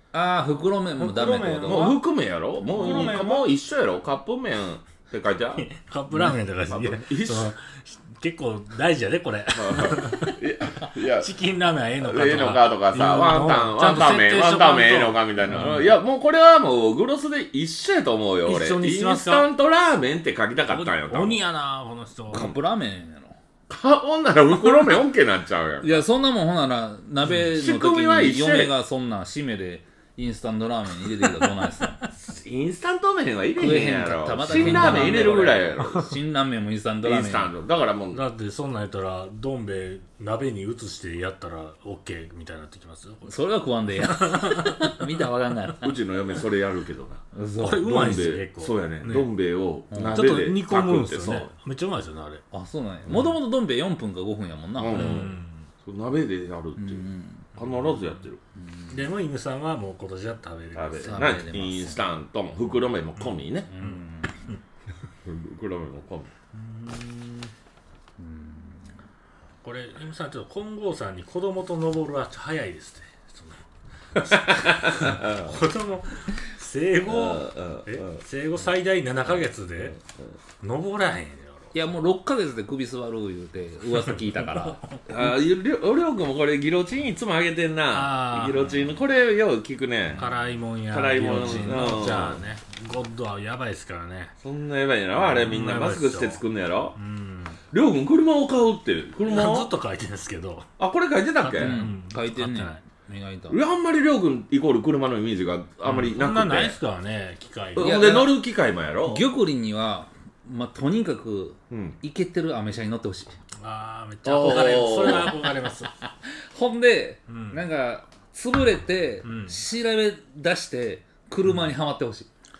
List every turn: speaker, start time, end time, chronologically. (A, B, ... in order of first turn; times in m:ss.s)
0:00.1-0:01.9 A
0:01.0-0:02.0 B
0:01.6-0:05.6 C
0:02.6-0:03.5 B
0:02.6-0:03.2 A
0:05.6-0:16.0 B
0:06.7-0:07.5 C
0:09.5-0:11.3 C
0:12.0-0:21.4 C
0:18.4-0:19.5 B
0:20.7-0:22.5 B
0:22.3-0:23.4 A
0:23.7-0:26.0 C
0:25.8-0:32.0 A
0:27.3-0:28.7 C
0:32.1-0:36.1 C
0:33.6-0:37.5 A
0:34.5-0:35.4 B
0:37.0-0:38.2 C
0:38.1-0:43.4 B
0:43.3-0:45.9 A
0:44.1-0:44.9 B
0:45.8-0:47.2 C
0:47.3-0:48.1 A
0:47.6-0:49.3 B
0:47.8-0:51.5 C
0:49.9-0:50.2 A
0:50.0-0:52.4 B
0:52.5-0:55.3 A
0:54.8-0:58.4 C
0:54.9-0:55.7 B
0:56.8-0:57.5 A
0:58.6-0:59.0 A
0:58.9-1:01.4 B
1:00.7-1:03.7 C
1:01.0-1:02.1 A
1:03.2-1:04.6 B
1:03.7-1:04.5 A
1:05.2-1:06.3 C
1:06.5-1:07.5 B
1:08.2-1:08.9 A
1:09.6-1:13.6 B
1:14.1-1:20.0 B
1:14.2-1:15.6 C
1:17.0-1:18.2 C
1:19.8-1:20.3 C
1:20.6-1:21.8 B
1:21.7-1:24.8 A
1:25.1-1:30.3 C
1:27.9-1:29.0 B
1:30.2-1:34.3 B
1:30.9-1:32.4 C
1:34.4-1:37.0 C
1:35.2-1:36.4 B
1:37.0-1:37.6 B
1:37.7-1:39.7 C
1:39.3-1:40.7 B
1:40.8-1:41.8 C
1:41.4-1:42.8 B
1:41.6-1:43.6 A
1:43.5-1:46.8 C
1:45.8-1:48.1 B
1:47.8-1:49.3 C
1:47.8-1:48.4 A
1:49.1-1:53.3 A
1:51.7-1:52.0 C
1:53.6-1:55.9 B
1:54.2-1:55.4 C
1:54.7-1:55.2 A
1:56.0-2:02.3 A
1:57.3-1:57.6 B
1:59.2-1:59.6 B